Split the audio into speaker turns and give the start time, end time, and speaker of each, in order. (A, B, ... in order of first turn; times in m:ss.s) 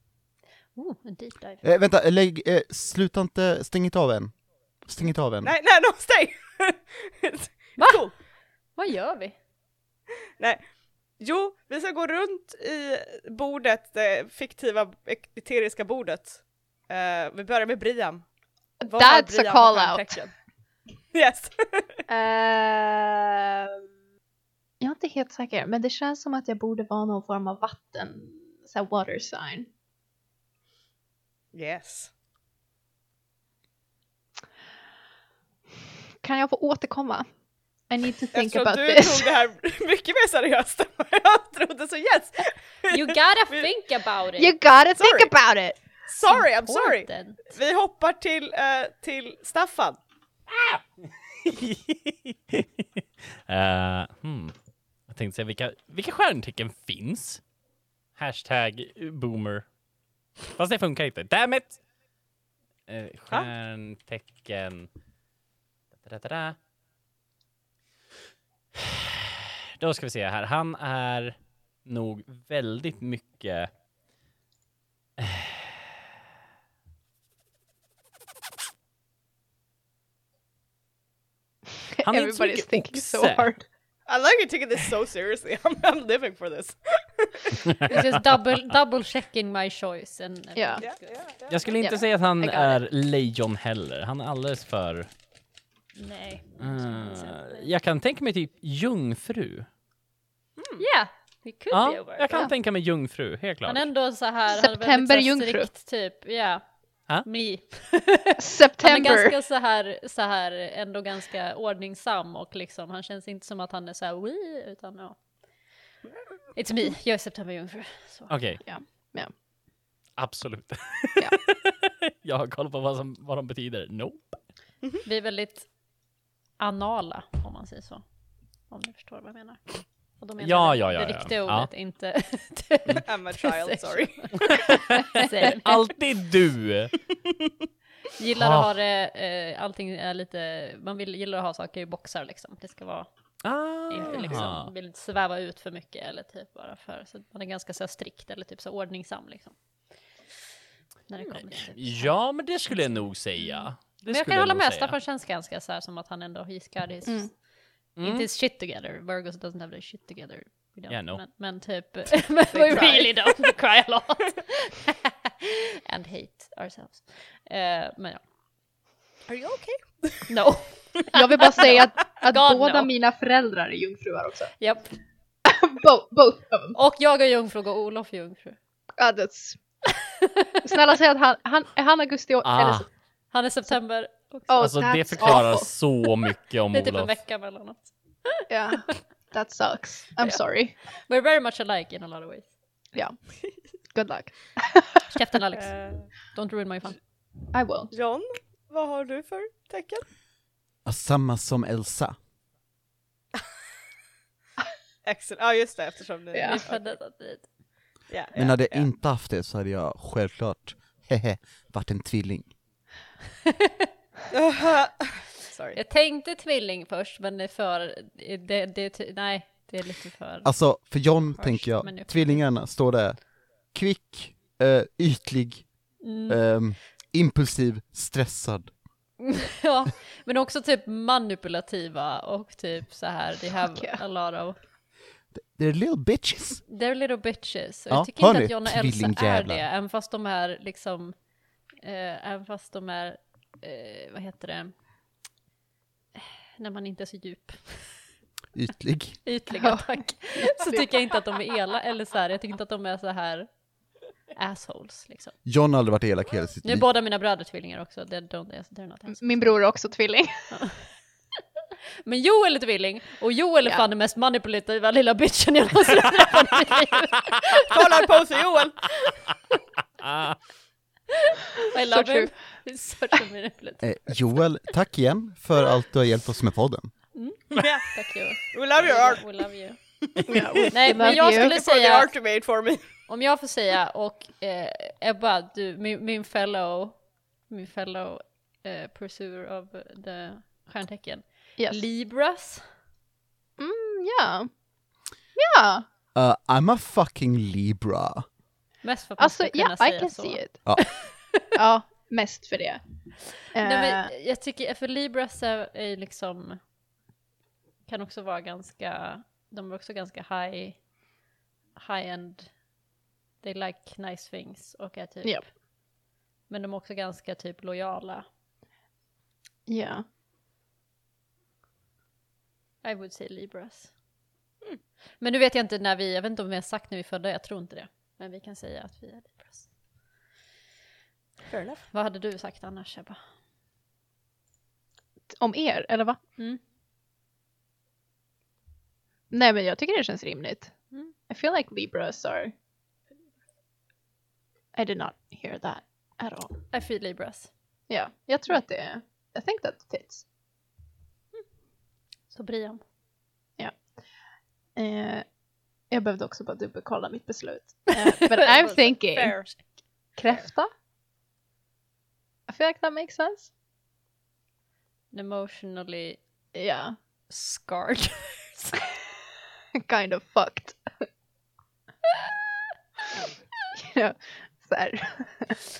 0:00.7-0:01.6 A
0:01.6-0:05.5 B
0:05.4-0:08.2 C
0:07.8-0:09.4 A
0:10.4-0:18.3 C
0:18.8-0:20.2 D
0:18.8-0:20.4 C
0:21.1-0:22.0 C
0:22.1-0:23.8 D
0:24.8-0:29.7 D
0:31.5-0:32.1 C
0:36.2-0:37.3 D
0:37.9-0:39.3 D
0:38.3-0:43.7 C
0:42.9-0:44.5 A
0:44.4-0:46.0 D
0:45.0-0:45.3 C
0:46.0-0:50.0 C
0:46.3-0:47.6 A
0:50.5-0:50.8 E
0:51.4-0:54.5 E
0:55.1-0:57.4 E
0:58.2-0:59.7 E
1:00.5-1:01.8 E
1:02.9-1:04.9 E
1:05.9-1:06.6 E
1:08.8-1:13.7 E
1:15.2-1:15.7 E
1:22.0-1:23.6 D
1:22.0-1:23.7 E
1:24.0-1:27.6 C
1:27.9-1:31.2 A
1:30.6-1:30.8 D
1:30.8-1:31.7 C
1:31.5-1:35.1 E
1:31.7-1:32.0 A
1:32.4-1:32.7 D
1:35.9-1:37.7 A
1:36.6-1:39.7 E
1:40.6-1:40.8 C
1:40.8-1:42.5 A
1:41.7-1:43.9 E
1:43.6-1:55.2 A
1:44.5-1:45.7 D
1:48.4-1:49.3 D
1:56.5-1:58.5 A
1:58.3-1:58.6 E
1:58.6-1:59.3 D
2:00.2-2:04.4 E
2:05.0-2:05.8 A
2:06.6-2:08.0 A
2:08.6-2:15.9 A
2:10.4-2:11.7 E
2:13.0-2:14.4 C
2:14.5-2:17.0 E
2:18.2-2:23.1 A
2:18.4-2:18.7 E
2:23.4-2:24.7 E
2:23.9-2:29.6 A
2:31.1-2:32.1 A
2:31.5-2:35.0 E
2:33.4-2:37.4 A
2:37.0-2:37.3 D
2:37.9-2:48.2 A
2:38.0-2:38.3 E
2:40.9-2:41.2 E
2:42.5-2:43.6 C
2:49.3-2:50.3 C
2:50.3-2:52.9 A
2:51.1-2:54.8 D
2:54.6-2:55.0 A
2:55.4-2:56.8 D
2:56.7-2:58.6 A
2:59.0-2:59.6 D
3:00.6-3:02.9 D
3:02.4-3:02.9 E
3:03.3-3:05.4 A
3:04.5-3:05.7 D
3:04.6-3:07.2 E
3:06.7-3:08.9 A
3:08.5-3:10.8 D
3:10.2-3:12.5 A
3:12.9-3:15.0 D
3:15.1-3:17.0 A
3:15.5-3:16.1 C
3:17.5-3:17.9 D
3:17.9-3:20.0 C
3:20.8-3:22.2 B
3:25.0-3:27.0 C
3:26.3-3:26.6 D
3:26.4-3:27.5 A
3:28.1-3:28.9 C
3:28.3-3:32.5 B
3:34.3-3:35.8 C
3:35.7-3:40.5 A
3:40.4-3:48.7 B
3:41.3-3:42.4 A
3:46.0-3:46.4 A
3:49.2-3:54.6 A
3:53.6-3:54.0 D
3:55.3-3:56.6 B
3:56.7-4:01.2 A
3:57.9-3:59.6 B
4:01.8-4:04.7 A
4:06.1-4:08.0 A
4:08.5-4:09.2 B
4:09.2-4:13.6 A
4:09.5-4:10.9 D
4:14.3-4:15.4 A
4:15.4-4:16.9 B
4:16.6-4:19.5 A
4:19.1-4:20.5 D
4:20.5-4:20.8 A
4:22.0-4:28.0 A
4:27.7-4:28.8 C
4:30.0-4:30.4 E
4:31.6-4:34.4 A
4:31.9-4:32.4 D
4:33.8-4:36.9 B
4:37.1-4:39.8 A
4:37.6-4:43.0 C
4:40.3-4:41.6 D
4:40.7-4:42.1 A
4:43.1-4:52.7 A
4:51.6-4:51.8 D
4:53.6-4:54.5 D
4:55.4-4:55.8 D
4:56.1-4:58.2 B
4:58.8-5:01.4 A
4:59.2-5:00.6 D
5:01.6-5:02.8 D
5:03.4-5:04.1 D
5:03.6-5:06.6 A
5:07.8-5:10.9 A
5:11.7-5:12.6 A
5:13.4-5:15.6 A
5:16.5-5:18.3 A
5:19.7-5:20.0 D
5:22.8-5:23.9 A
5:25.2-5:29.7 A
5:31.5-5:31.8 C
5:31.9-5:33.2 A
5:35.3-5:36.2 D
5:39.3-5:42.5 D
5:44.7-5:46.6 D
5:46.7-5:47.5 A
5:47.9-5:50.2 D
5:52.3-5:52.8 A
5:53.6-5:54.0 D
5:54.7-5:55.4 D
5:55.9-5:59.6 D
5:58.3-5:59.6 A
5:58.5-5:59.6 C
6:00.1-6:00.7 D
6:02.5-6:03.5 D
6:05.1-6:06.2 A
6:06.5-6:07.0 D
6:07.3-6:08.8 A
6:09.8-6:11.0 D
6:13.8-6:15.6 D